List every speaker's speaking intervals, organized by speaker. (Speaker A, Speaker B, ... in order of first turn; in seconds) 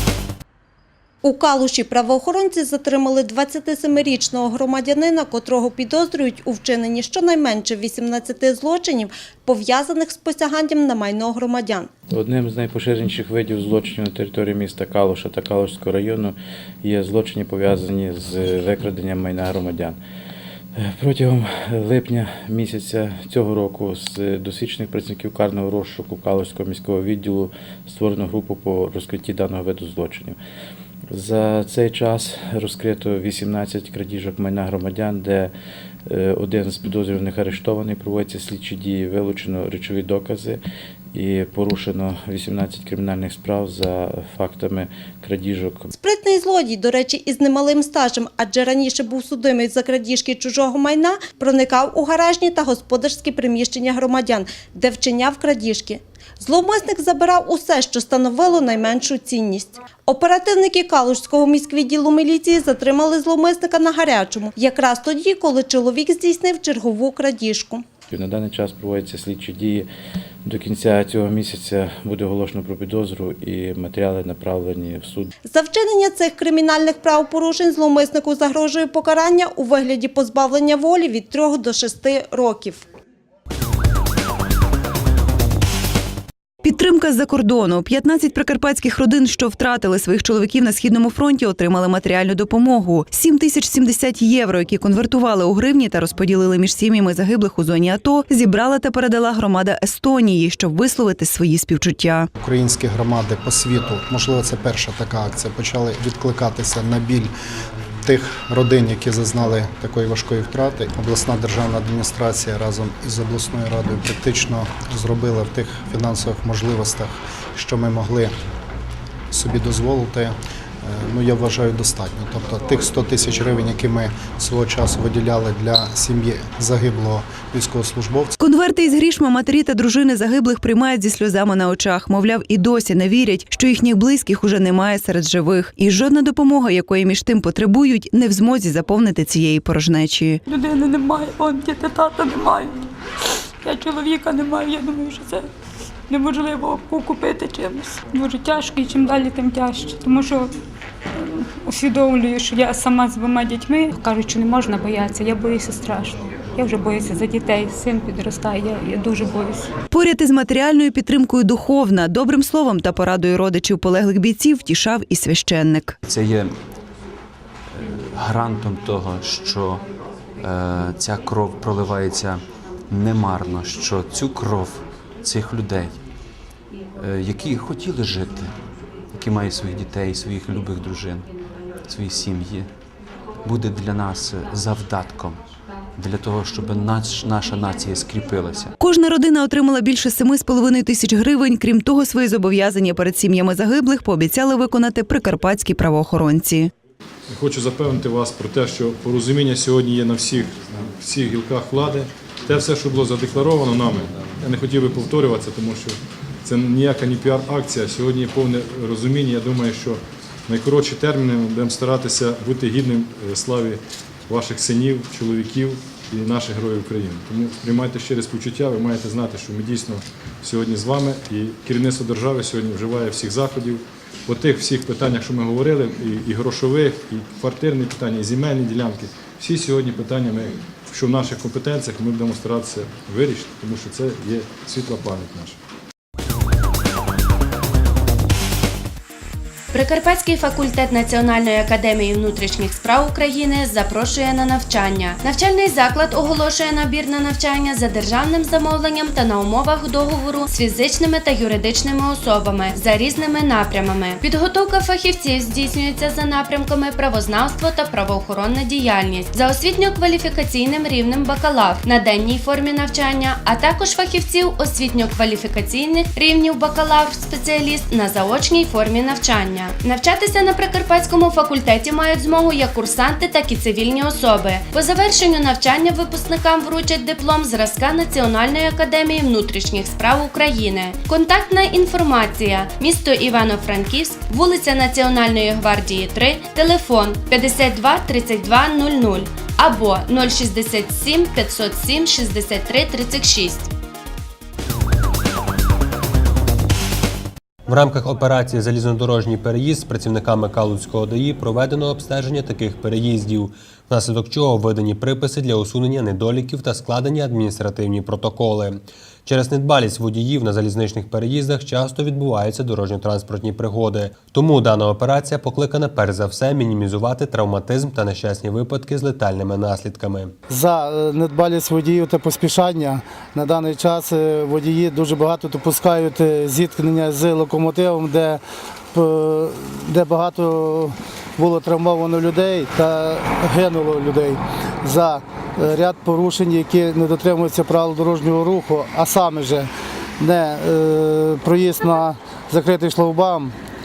Speaker A: 1.2-11.9, 45.9-67.8, 75.5-82.8
Speaker B: 12.1-20.0, 20.8-30.4, 31.1-35.5, 36.1-40.6, 41.1-45.9, 68.1-69.9, 70.5-75.3
Speaker C: 28.9-29.3, 32.4-32.7, 34.7-35.2, 239.7-293.7
Speaker D: 86.6-102.3, 128.4-140.4, 159.9-165.9, 188.8-196.7
Speaker E: 102.4-107.3, 108.0-118.3, 119.3-128.3
Speaker F: 140.5-142.7, 143.6-145.4, 146.1-150.5, 151.7-159.7
Speaker G: 166.1-166.5, 167.8-169.8, 170.4-176.0, 176.9-178.5, 179.1-181.3, 181.8-182.7, 183.4-185.4, 186.0-188.7
Speaker H: 197.3-235.6
Speaker I: 297.7-320.3
Speaker J: 320.5-328.4, 328.9-339.7, 340.2-343.5